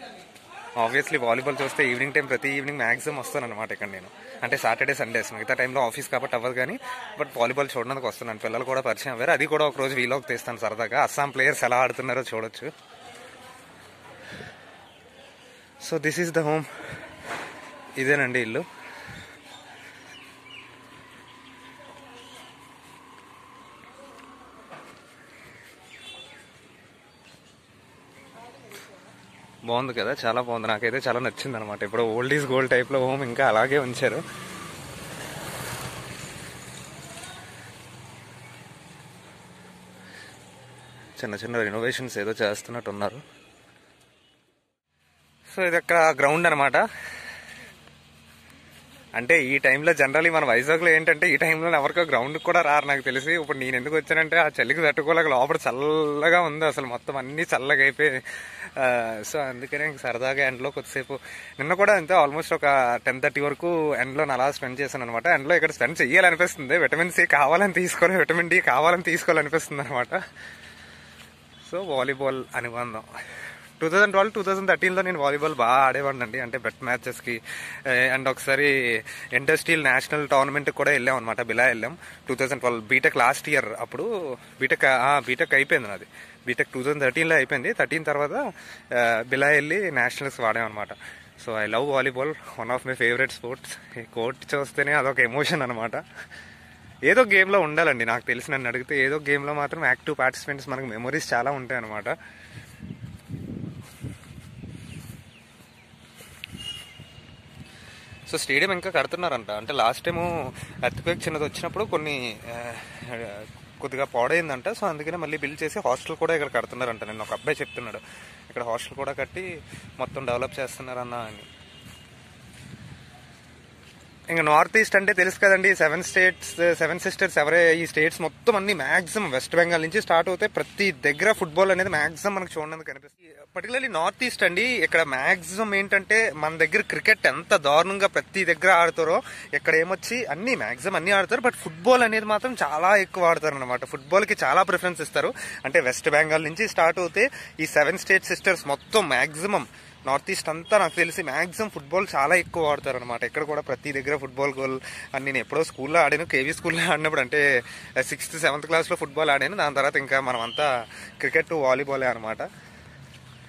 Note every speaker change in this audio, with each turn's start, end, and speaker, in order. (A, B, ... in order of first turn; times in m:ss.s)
0:00.8-0:12.7 A
0:15.8-0:16.7 A
0:18.0-0:18.7 A
0:29.7-0:34.2 A
0:41.2-0:43.2 A
0:45.5-0:46.8 A
0:49.2-1:10.2 A
1:11.6-1:13.1 A
1:13.8-1:36.0 A
1:37.0-1:42.2 A
1:48.3-2:01.5 A
2:04.3-2:37.4 A
2:38.0-2:42.5 A